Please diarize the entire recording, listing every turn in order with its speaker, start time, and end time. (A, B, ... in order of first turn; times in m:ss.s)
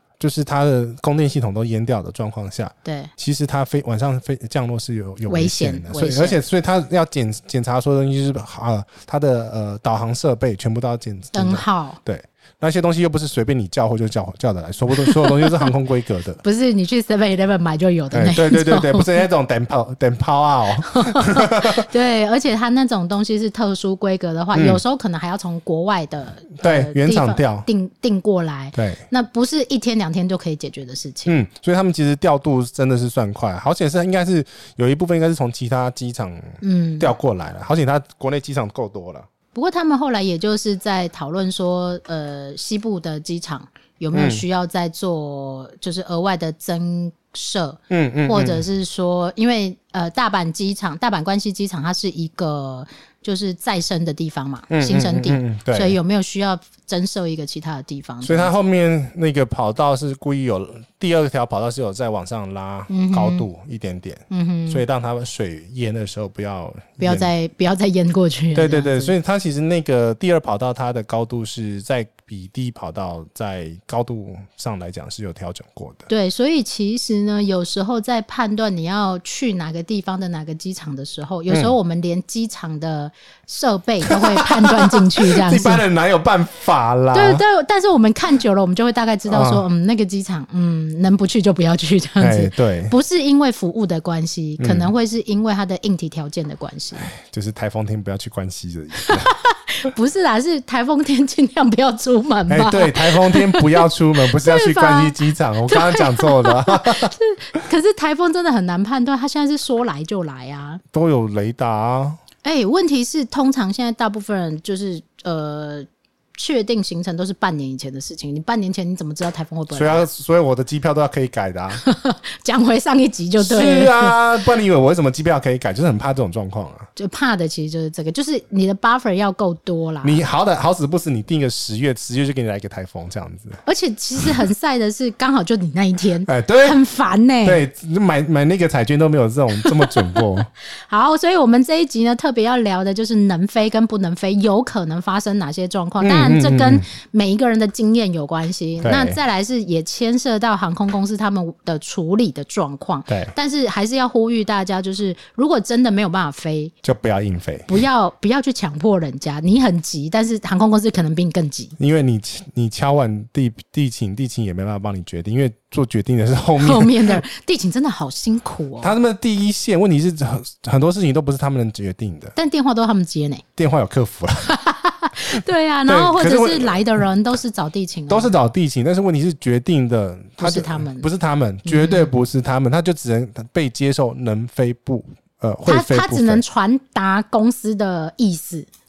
0:00.2-0:16.4 A
0:02.8-0:03.1 B
0:05.3-0:06.4 B
0:11.3-0:12.0 B
0:15.0-0:15.7 B
0:16.4-0:19.2 B
0:18.1-0:21.9 A
0:20.8-0:31.4 B
0:24.5-0:24.8 A
0:26.6-0:27.7 A
0:28.8-0:29.0 A
0:31.3-0:39.3 A
0:36.6-0:37.1 B
0:39.5-0:58.5 B
0:44.1-0:44.4 A
0:47.9-0:48.6 A
0:54.7-0:56.0 A
0:58.2-1:07.3 A
1:02.9-1:03.5 B
1:04.3-1:04.8 B
1:07.0-1:09.1 B
1:08.6-1:16.1 A
1:16.1-1:25.8 B
1:21.5-1:21.8 A
1:24.0-1:27.4 A
1:27.1-1:37.1 B
1:29.3-1:29.6 A
1:32.2-1:33.0 A
1:34.6-1:34.9 A
1:37.0-1:39.3 A
1:39.0-1:50.8 B
1:42.5-1:47.1 A
1:50.9-1:52.2 A
1:52.4-2:00.1 B
1:59.7-2:01.8 A
2:01.8-2:04.2 B
2:03.4-2:06.9 A
2:07.0-2:10.2 B
2:10.0-2:13.6 A
2:13.6-2:17.6 B
2:16.3-2:16.8 A
2:17.4-2:20.5 A
2:19.6-2:20.2 B
2:20.9-2:36.7 B
2:26.0-2:26.8 A
2:28.8-2:29.2 A
2:33.1-2:33.3 A
2:36.8-2:37.7 A
2:37.7-2:41.8 B
2:41.8-2:47.2 A
2:46.6-2:49.0 B
2:48.8-2:52.4 A
2:52.4-2:53.4 B
2:53.6-2:54.5 A
2:54.5-2:58.3 B
2:55.9-2:57.1 A
2:58.1-3:06.4 A
3:00.4-3:01.1 B
3:01.6-3:02.1 B
3:05.7-3:08.7 B